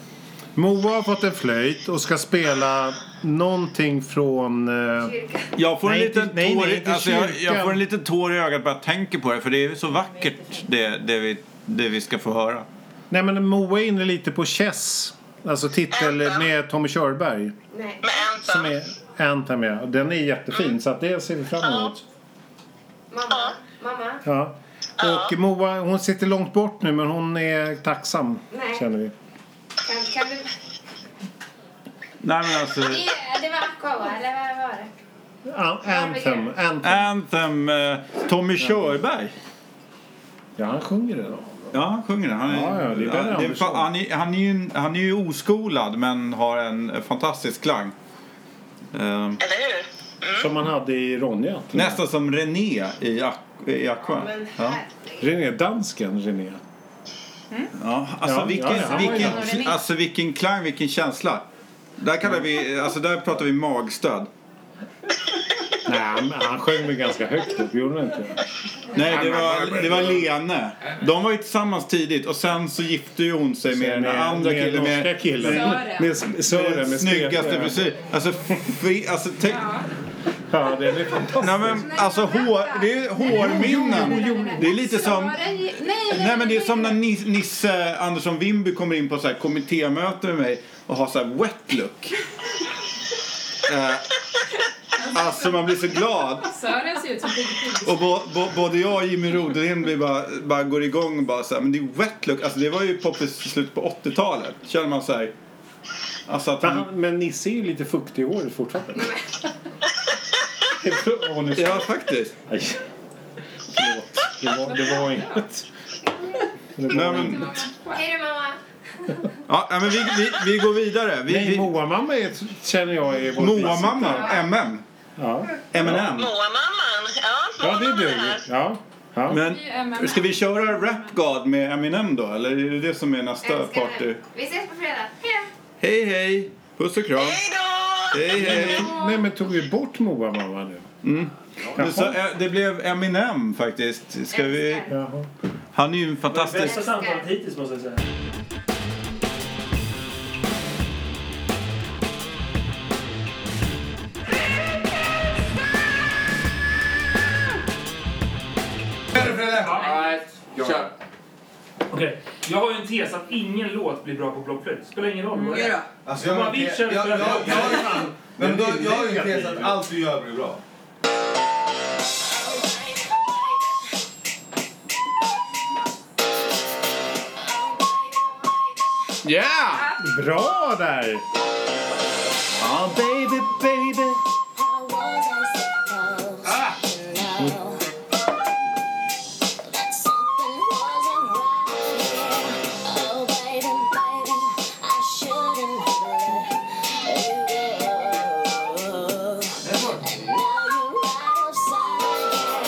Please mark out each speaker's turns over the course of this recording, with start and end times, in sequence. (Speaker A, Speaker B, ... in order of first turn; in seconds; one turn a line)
Speaker A: 0.6-5.1
Speaker B: 5.0-5.5
Speaker C: 5.6-12.7
Speaker A: 5.8-7.8
Speaker D: 10.0-10.7
Speaker A: 13.1-17.5
Speaker E: 15.9-16.5
Speaker B: 17.7-18.0
Speaker E: 18.0-18.7
Speaker A: 18.4-22.1
Speaker B: 23.1-24.2
Speaker A: 24.2-29.1
Speaker E: 25.0-25.3
Speaker B: 28.5-28.8
Speaker B: 29.9-30.5
Speaker C: 32.2-33.0
Speaker B: 32.8-34.9
Speaker A: 35.5-37.1
Speaker B: 35.8-36.5
Speaker C: 36.8-39.4
Speaker A: 38.6-38.9
Speaker A: 40.6-41.8
Speaker C: 41.7-47.9
Speaker A: 42.5-43.9
Speaker C: 48.9-49.4
Speaker E: 49.4-50.5
Speaker A: 50.4-52.0
Speaker C: 51.7-54.8
Speaker B: 54.0-55.3
Speaker A: 55.2-56.6
Speaker C: 57.8-61.5
Speaker A: 58.2-59.8
Speaker D: 58.8-59.8
Speaker C: 62.0-64.3
Speaker A: 65.8-68.4
Speaker C: 68.9-75.8
Speaker A: 69.0-70.3
Speaker A: 73.7-77.8
Speaker D: 75.5-76.1
Speaker C: 76.4-79.8
Speaker D: 79.4-79.9
Speaker A: 80.5-81.9
Speaker C: 81.4-85.5
Speaker D: 81.7-87.0
Speaker A: 83.4-84.7
Speaker B: 83.5-84.6
Speaker C: 86.1-92.2
Speaker C: 93.7-94.2
Speaker C: 95.0-96.5
Speaker D: 95.0-98.2
Speaker C: 97.8-105.3
Speaker C: 106.3-106.9
Speaker A: 106.6-109.1
Speaker B: 109.0-109.3
Speaker A: 110.7-111.9
Speaker C: 111.6-112.3
Speaker A: 112.5-112.8
Speaker A: 113.7-115.7
Speaker D: 114.7-115.3
Speaker A: 116.8-117.5
Speaker C: 116.9-117.5
Speaker D: 117.0-118.0
Speaker B: 117.9-118.6
Speaker C: 119.5-121.8
Speaker A: 121.3-124.5
Speaker C: 123.3-124.8
Speaker D: 123.4-124.1
Speaker A: 125.2-126.1
Speaker C: 125.7-126.3
Speaker E: 126.0-128.4
Speaker A: 127.6-129.4
Speaker C: 129.3-134.2
Speaker D: 129.4-131.2
Speaker B: 133.4-135.5
Speaker C: 135.8-137.4
Speaker E: 137.2-138.4
Speaker C: 138.1-138.9
Speaker A: 138.3-140.9
Speaker D: 138.5-139.2
Speaker C: 141.0-144.9
Speaker A: 141.7-142.2
Speaker B: 144.3-144.9
Speaker A: 144.9-145.3
Speaker C: 145.7-146.9
Speaker F: 146.3-148.1
Speaker B: 146.6-147.3
Speaker G: 159.2-159.9
Speaker F: 159.4-159.9
Speaker H: 159.8-160.9
Speaker F: 161.9-167.8
Speaker D: 165.3-165.7
Speaker H: 165.6-166.0
Speaker G: 166.0-170.6
Speaker A: 167.7-169.8
Speaker C: 179.2-180.0
Speaker A: 180.0-181.2
Speaker A: 182.8-184.2
Speaker H: 189.8-192.2
Speaker H: 193.1-196.5
Speaker H: 197.2-198.5
Speaker H: 200.9-202.0